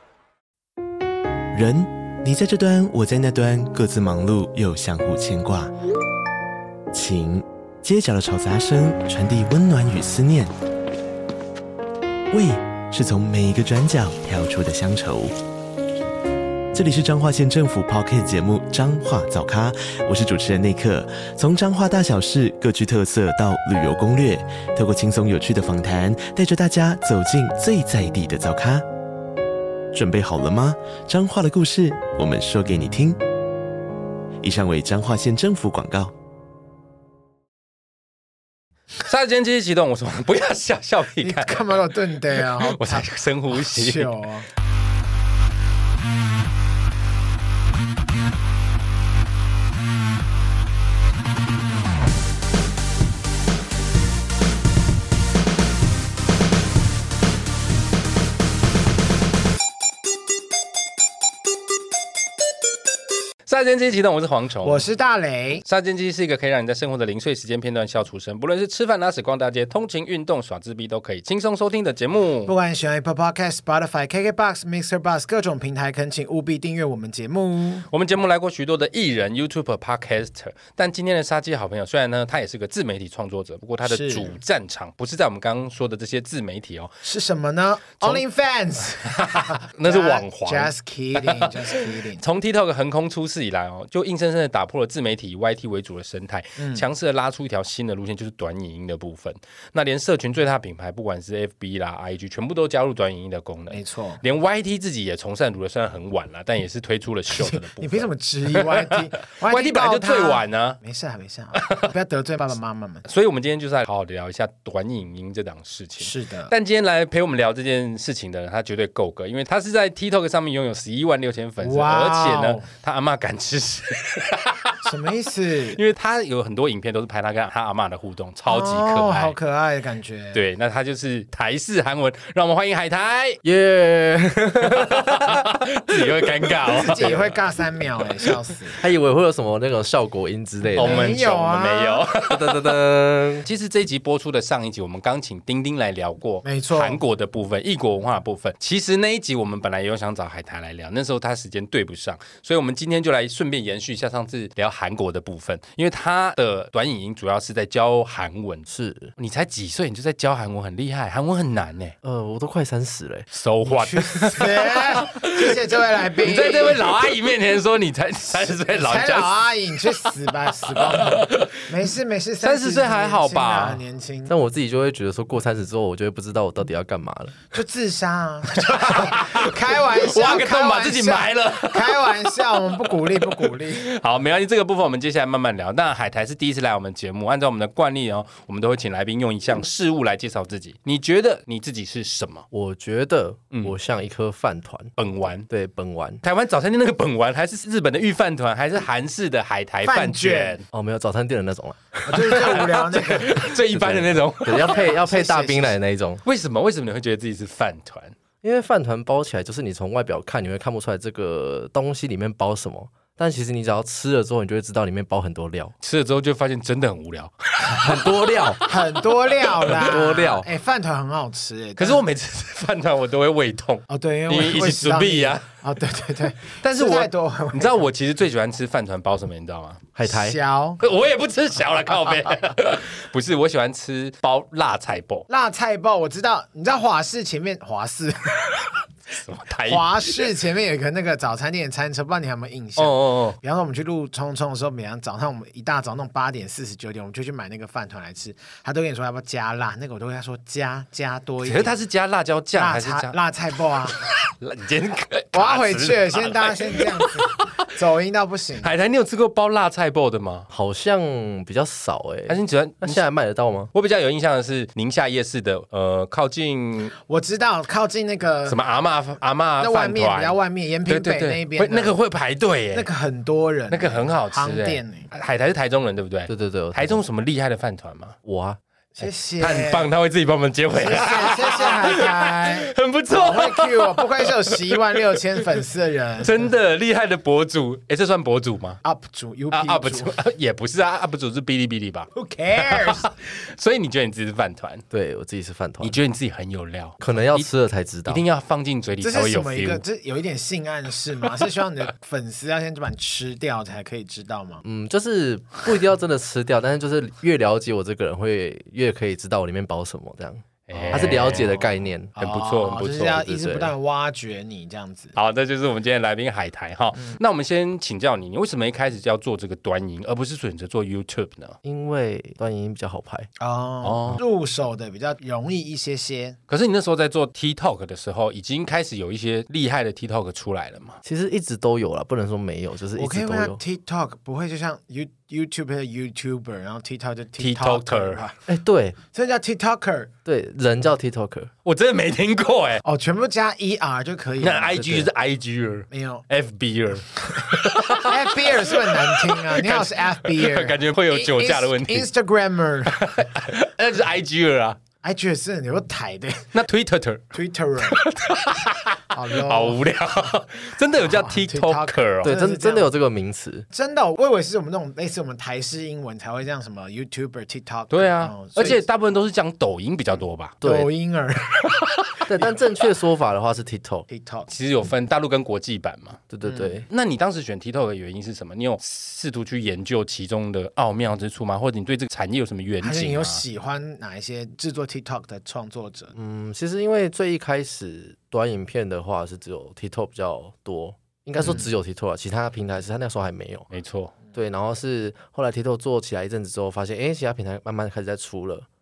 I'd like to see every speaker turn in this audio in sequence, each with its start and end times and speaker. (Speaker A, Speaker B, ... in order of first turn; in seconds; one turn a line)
Speaker A: 1.5-5.7
Speaker A: 6.9-10.5
Speaker A: 12.3-15.4
Speaker A: 16.7-28.9
Speaker A: 29.9-33.2
Speaker A: 34.4-36.1
Speaker B: 39.0-41.8
Speaker C: 41.2-44.5
Speaker B: 42.4-44.1
Speaker B: 63.5-64.8
Speaker C: 64.6-65.6
Speaker B: 65.7-72.5
Speaker C: 72.5-77.8
Speaker B: 77.9-87.0
Speaker C: 83.8-84.3
Speaker C: 87.0-92.2
Speaker B: 89.0-110.8
Speaker C: 96.6-96.8
Speaker C: 103.7-104.2
Speaker C: 107.3-113.1
Speaker B: 111.5-111.9
Speaker B: 113.1-124.8
Speaker C: 116.0-116.5
Speaker C: 121.6-122.7
Speaker C: 124.8-125.8
Speaker B: 125.7-129.4
Speaker C: 128.5-130.4
Speaker B: 130.3-133.4
Speaker D: 133.4-135.4
Speaker B: 134.8-137.3
Speaker C: 136.6-138.8
Speaker D: 138.8-141.2
Speaker B: 140.8-142.8
Speaker C: 140.8-142.0
Speaker D: 142.2-143.5
Speaker B: 143.4-161.9
Speaker C: 146.4-147.0
Speaker D: 158.7-159.1
Speaker D: 162.0-163.3
Speaker B: 163.3-165.6
Speaker C: 163.7-166.9
Speaker B: 166.2-169.3
Speaker C: 168.7-174.3
Speaker B: 170.7-171.6
Speaker B: 172.4-173.8
Speaker D: 174.3-177.3
Speaker C: 177.5-183.9
Speaker B: 178.6-182.7
Speaker B: 183.2-192.5
Speaker D: 192.5-194.9
Speaker B: 195.0-195.5
Speaker D: 195.5-196.2
Speaker B: 196.2-200.7
Speaker C: 199.8-200.6
Speaker D: 200.7-202.0
Speaker C: 202.1-203.6
Speaker B: 202.1-204.8
Speaker D: 203.7-206.2
Speaker C: 204.7-205.8
Speaker B: 206.2-208.2
Speaker D: 208.4-215.7
Speaker B: 215.8-219.1
Speaker D: 217.7-218.7
Speaker C: 218.7-222.0
Speaker D: 219.7-220.5
Speaker B: 221.8-225.5
Speaker C: 223.9-227.9
Speaker B: 226.6-229.8
Speaker D: 229.9-230.4
Speaker C: 230.1-230.8
Speaker B: 230.8-235.3
Speaker C: 235.3-238.7
Speaker B: 239.1-240.3
Speaker C: 239.7-251.8
Speaker B: 242.8-243.4
Speaker B: 251.4-253.2
Speaker C: 252.5-254.1
Speaker B: 254.3-257.6
Speaker C: 255.3-258.7
Speaker B: 258.6-260.5
Speaker D: 260.5-263.7
Speaker B: 262.3-263.0
Speaker B: 263.7-266.9
Speaker C: 267.0-268.6
Speaker B: 268.5-272.9
Speaker C: 269.6-271.9
Speaker C: 272.7-275.1
Speaker B: 273.7-278.2
Speaker D: 276.3-277.0
Speaker D: 278.2-278.6
Speaker C: 278.9-279.9
Speaker B: 279.0-285.0
Speaker C: 280.7-286.5
Speaker B: 286.2-288.8
Speaker C: 288.8-290.1
Speaker B: 289.5-294.8
Speaker C: 292.1-293.1
Speaker D: 294.9-296.0
Speaker B: 295.8-297.5
Speaker D: 297.0-298.2
Speaker B: 298.1-299.8
Speaker C: 299.0-304.6
Speaker D: 304.6-312.1
Speaker B: 310.7-311.6
Speaker C: 310.7-315.1
Speaker B: 312.2-313.2
Speaker D: 313.1-313.7
Speaker B: 315.1-321.6
Speaker D: 321.6-323.3
Speaker C: 323.4-326.4
Speaker B: 323.8-324.2
Speaker B: 326.5-331.0
Speaker D: 331.0-333.6
Speaker C: 332.9-338.4
Speaker B: 337.4-338.2
Speaker D: 338.5-339.0
Speaker C: 339.1-340.1
Speaker D: 340.2-341.5
Speaker B: 341.6-342.8
Speaker C: 342.8-344.8
Speaker B: 344.4-352.1
Speaker D: 344.7-345.1
Speaker C: 345.9-346.2
Speaker C: 347.3-353.0
Speaker B: 352.9-354.8
Speaker C: 355.0-356.5
Speaker B: 356.5-362.3
Speaker C: 357.3-358.0
Speaker C: 359.1-359.9
Speaker C: 361.0-362.9
Speaker D: 362.2-363.7
Speaker C: 363.7-368.8
Speaker B: 367.9-370.6
Speaker D: 370.6-370.9
Speaker C: 370.6-372.5
Speaker D: 372.3-374.1
Speaker C: 374.1-374.5
Speaker B: 374.5-376.2
Speaker D: 376.3-376.9
Speaker C: 376.4-376.8
Speaker B: 376.9-383.4
Speaker C: 382.8-386.1
Speaker D: 386.1-393.7
Speaker C: 391.4-391.7
Speaker B: 393.7-394.1
Speaker D: 394.3-398.7